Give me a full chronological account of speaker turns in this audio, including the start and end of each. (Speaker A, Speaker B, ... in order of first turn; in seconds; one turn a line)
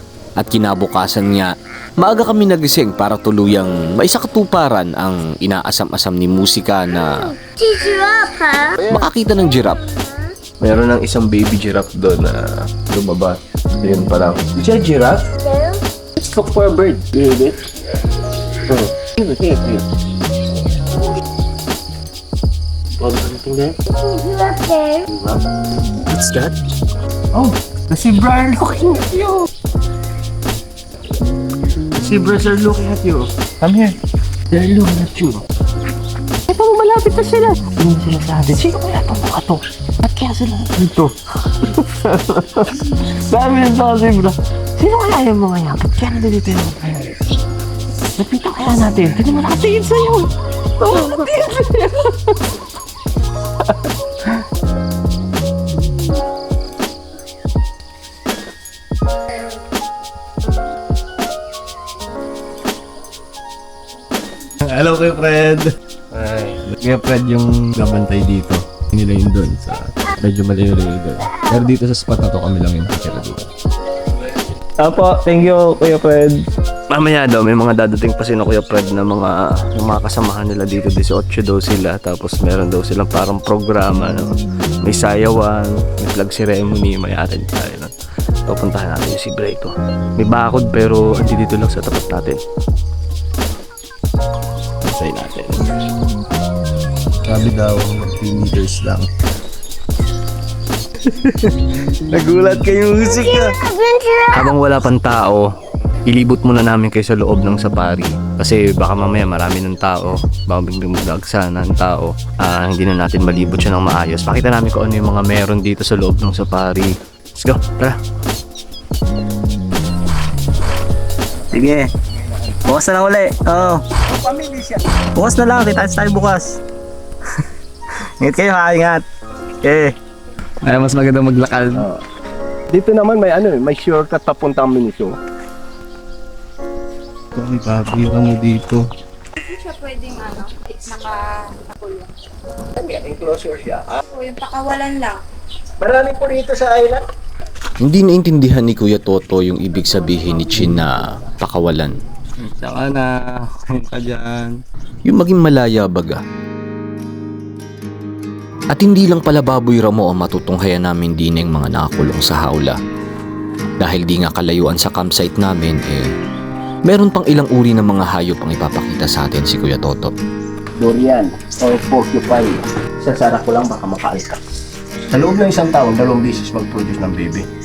Speaker A: 0.4-7.3
Speaker B: 7.2-8.9
Speaker A: 8.8-9.9
Speaker B: 9.6-10.4
Speaker C: 10.6-15.2
Speaker B: 15.4-15.8
Speaker C: 16.2-17.3
Speaker C: 19.0-19.8
Speaker C: 23.0-23.8
Speaker B: 23.9-25.1
Speaker C: 25.1-25.4
Speaker C: 26.1-26.5
Speaker C: 27.4-29.4
Speaker C: 32.0-34.0
Speaker C: 34.5-35.4
Speaker C: 36.5-41.1
Speaker C: 41.7-42.6
Speaker C: 43.3-47.1
Speaker C: 48.2-50.3
Speaker C: 50.8-52.0
Speaker C: 64.6-73.5
Speaker C: 74.4-87.9
Speaker C: 88.5-92.4
Speaker C: 94.8-95.7
Speaker C: 97.3-99.1
Speaker C: 101.0-101.6
Speaker C: 102.1-103.5
Speaker B: 103.0-104.5
Speaker C: 104.3-105.5
Speaker C: 106.1-118.0
Speaker C: 121.5-121.9
Speaker D: 122.2-122.6
Speaker C: 122.7-123.8
Speaker D: 124.1-124.8
Speaker C: 125.2-126.6
Speaker C: 128.2-129.0
Speaker C: 129.6-129.9
Speaker C: 130.6-131.9
Speaker D: 132.7-135.1
Speaker C: 137.3-138.9
Speaker E: 139.4-142.1
Speaker D: 142.8-144.0
Speaker E: 144.1-145.2
Speaker D: 145.8-147.0
Speaker A: 147.8-152.0
Speaker C: 152.4-154.6
Speaker A: 155.1-156.2
Speaker A: 158.7-162.8
Speaker A: 163.8-166.1
Speaker A: 166.9-170.1
Speaker D: 170.8-174.4
Speaker D: 175.1-177.4